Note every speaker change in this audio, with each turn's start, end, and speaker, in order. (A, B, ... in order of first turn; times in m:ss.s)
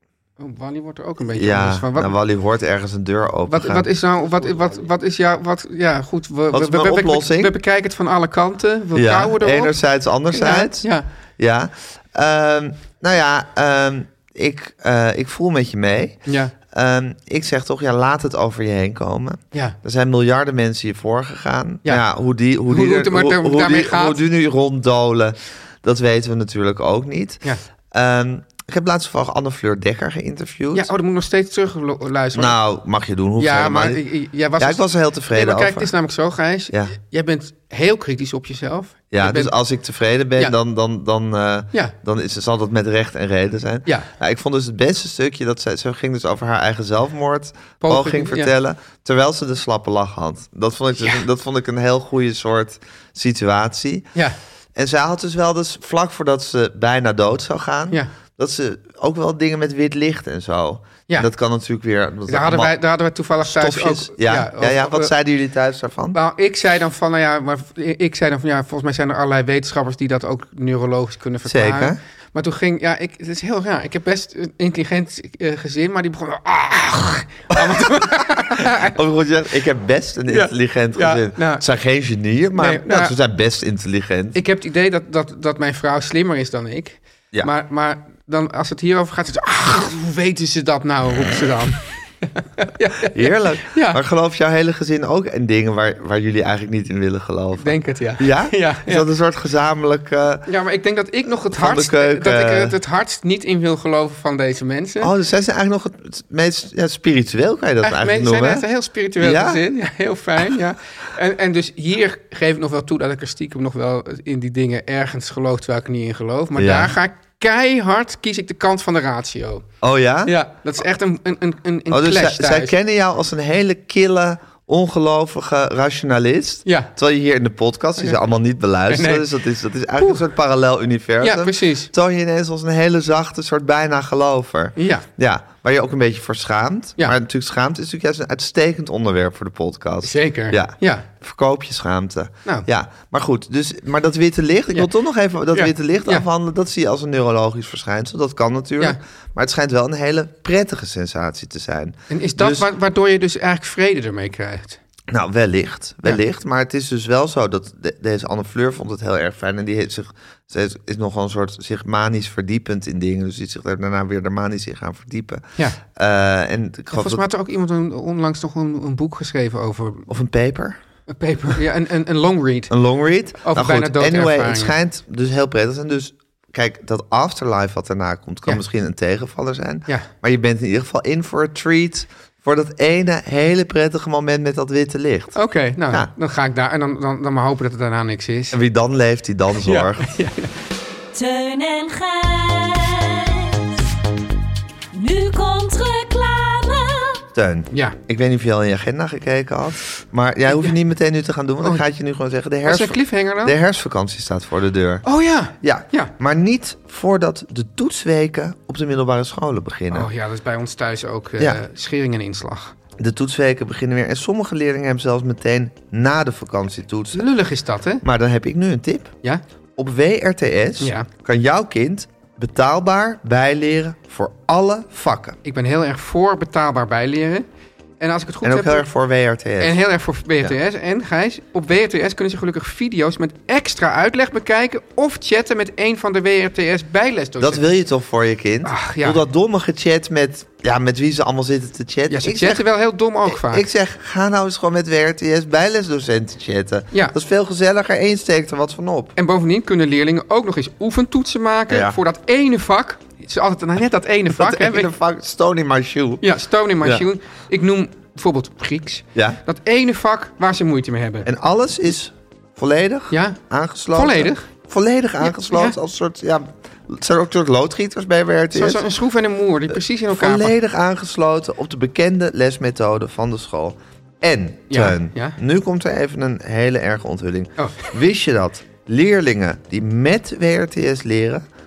0:00.4-0:02.1 A
0:01.3-0:03.9 B
0:03.5-0:11.1 A
0:06.5-0:07.5 B
0:08.9-0:30.9 B
0:16.2-0:16.5 A
0:22.7-0:24.2 A
0:30.7-0:32.6 A
0:32.3-0:34.0 B
0:33.4-0:39.5 A
0:34.6-0:35.9 B
0:39.1-0:54.1 B
0:47.8-0:48.5 A
0:54.7-1:02.7 B
1:02.3-1:05.1 A
1:03.4-1:06.2 B
1:06.1-1:18.9 A
1:11.4-1:12.0 B
1:17.5-1:18.0 B
1:18.5-1:24.4 B
1:20.3-1:21.6 A
1:22.6-1:23.1 A
1:24.3-1:34.0 A
1:33.0-1:40.4 B
1:37.6-1:39.1 A
1:40.5-1:45.1 A
1:41.5-1:42.8 B
1:45.0-1:48.6 B
1:47.8-1:59.6 A
1:49.2-1:49.6 B
1:56.6-1:56.9 B
1:59.8-2:00.4 B
2:00.2-2:02.7 A
2:01.9-2:32.7 B
2:06.6-2:06.9 A
2:08.9-2:09.2 A
2:11.2-2:11.9 A
2:14.8-2:15.1 A
2:20.0-2:21.1 A
2:25.5-2:26.2 A
2:32.1-2:34.8 A
2:35.1-2:47.2 B
2:46.9-2:50.1 A
2:50.1-2:50.8 B
2:51.1-2:52.7 A
2:52.7-3:06.1 B
2:53.4-2:54.7 A
3:05.4-3:08.6 A
3:08.5-3:10.1 B
3:09.6-3:10.5 A
3:11.1-3:13.9 C
3:14.9-3:17.2 C
3:17.3-3:25.0 B
3:17.7-3:18.0 A
3:22.6-3:23.5 A
3:25.0-3:26.1 A
3:25.6-3:30.1 B
3:29.9-3:32.7 A
3:33.0-3:37.2 B
3:37.1-3:38.0 A
3:38.0-3:39.1 B
3:39.8-3:45.4 B
3:40.8-3:41.1 A
3:45.4-3:47.4 A
3:48.0-3:48.9 A
3:48.4-3:49.8 B
3:49.6-3:57.6 A
3:57.4-4:02.6 B
3:58.6-3:59.2 A
4:02.1-4:03.7 A
4:03.2-4:09.1 B
4:09.2-4:14.9 A
4:11.7-4:12.0 B
4:14.3-4:16.2 B
4:16.2-4:21.3 A
4:21.2-4:28.8 B
4:23.1-4:23.4 A
4:23.9-4:24.5 A
4:25.2-4:25.8 A
4:28.5-4:30.5 A
4:29.7-4:41.4 B
4:34.7-4:35.4 A
4:37.6-4:37.9 A